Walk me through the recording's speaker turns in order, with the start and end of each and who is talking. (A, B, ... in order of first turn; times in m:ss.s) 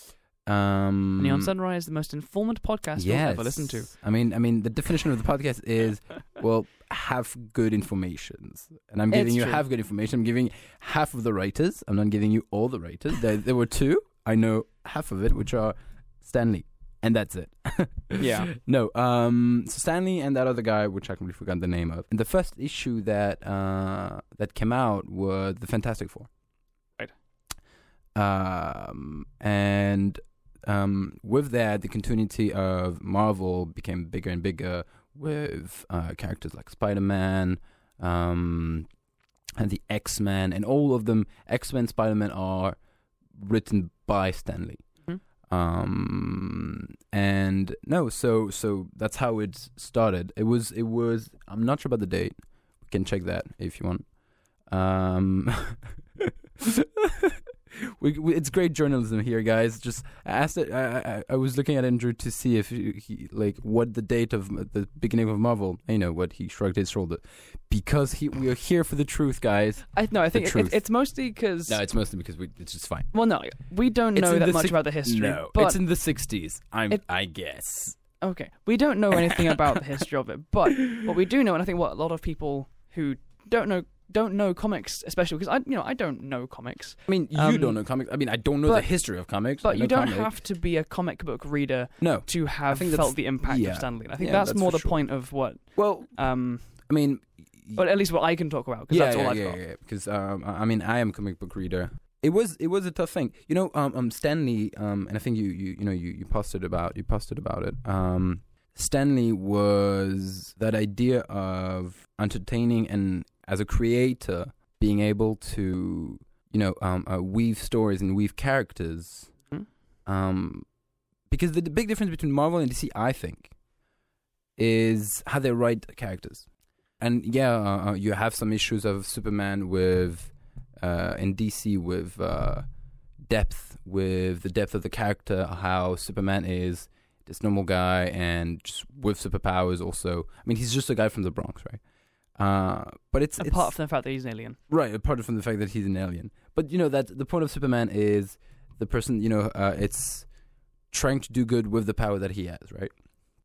0:00.4-0:01.5 A
0:01.2-0:03.9 B
0:03.0-0:26.3 A
0:09.1-0:09.6 B
0:18.2-0:18.5 B
0:28.1-0:38.9 A
0:39.6-0:42.8 A
0:43.4-0:44.8 A
0:45.5-0:54.0 A
0:54.7-1:10.8 A
1:09.9-1:11.8 B
1:11.7-1:13.1 A
1:13.1-1:15.8 B
1:14.1-1:18.0 A
1:18.2-1:27.8 B
1:19.2-1:19.6 A
1:27.1-1:30.3 A
1:29.6-1:36.7 B
1:32.0-1:35.0 A
1:35.7-1:36.1 A
1:36.8-1:37.8 A
1:37.7-1:39.6 B
1:38.9-1:59.3 A
2:00.0-2:00.6 A
2:01.3-2:03.5 A
2:04.6-2:06.5 A
2:07.0-2:12.6 A
2:13.3-2:21.8 A
2:22.4-2:23.7 A
2:23.4-2:24.6 B
2:24.7-2:30.3 A
2:30.9-2:32.9 A